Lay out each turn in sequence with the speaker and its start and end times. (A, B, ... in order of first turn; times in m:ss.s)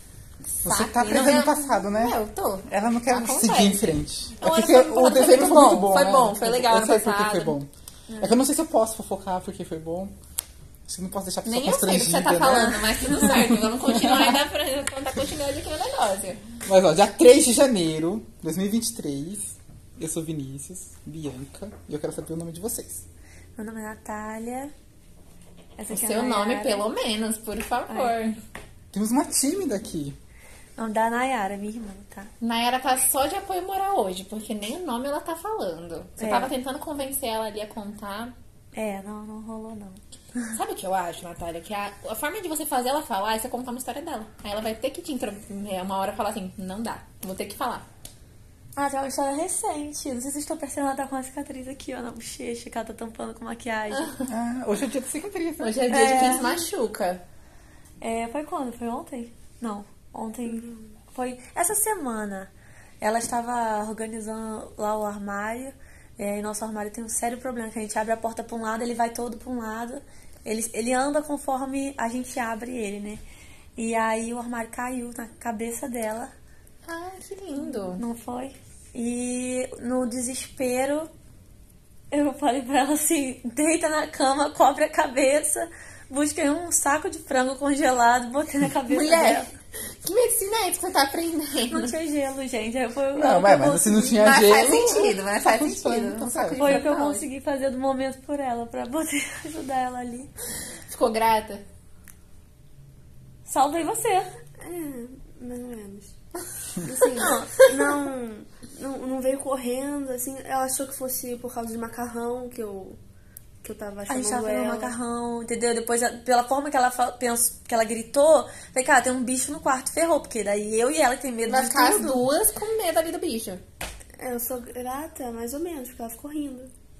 0:00.4-0:07.6 A
0:00.6-0:07.7 B
0:08.1-0:08.4 C
0:08.2-0:10.1 B
0:10.9-0:14.4 B
0:11.4-0:16.4 A
0:16.6-0:23.0 B
0:23.6-0:24.7 C
0:25.8-0:26.8 C
0:25.9-0:28.4 A
0:27.9-0:28.2 C
0:28.9-0:30.2 B
0:30.8-0:32.3 C
0:32.4-0:38.3 A
0:36.2-0:36.5 C
0:38.7-0:40.5 C
0:40.5-0:47.8 A
0:48.8-0:54.1 C
0:54.0-0:54.3 A
0:54.3-0:55.8 B
0:55.6-0:57.2 A
0:55.9-0:56.4 C
0:58.0-1:02.5 C
1:03.0-1:13.2 C
1:13.8-1:16.3 C
1:16.8-1:18.0 A
1:17.9-1:21.1 C
1:22.1-1:29.5 C
1:28.9-1:29.5 A
1:30.0-1:31.9 A
1:31.7-1:34.3 C
1:33.2-1:36.8 B
1:34.2-1:37.3 A
1:36.6-1:40.3 C
1:40.9-1:41.6 A
1:43.4-1:44.3 C
1:44.6-1:46.1 D
1:46.8-1:53.0 D
1:47.2-1:47.9 C
1:53.6-1:54.9 D
1:54.1-2:02.2 C
2:01.4-2:03.6 A
2:04.2-2:06.7 D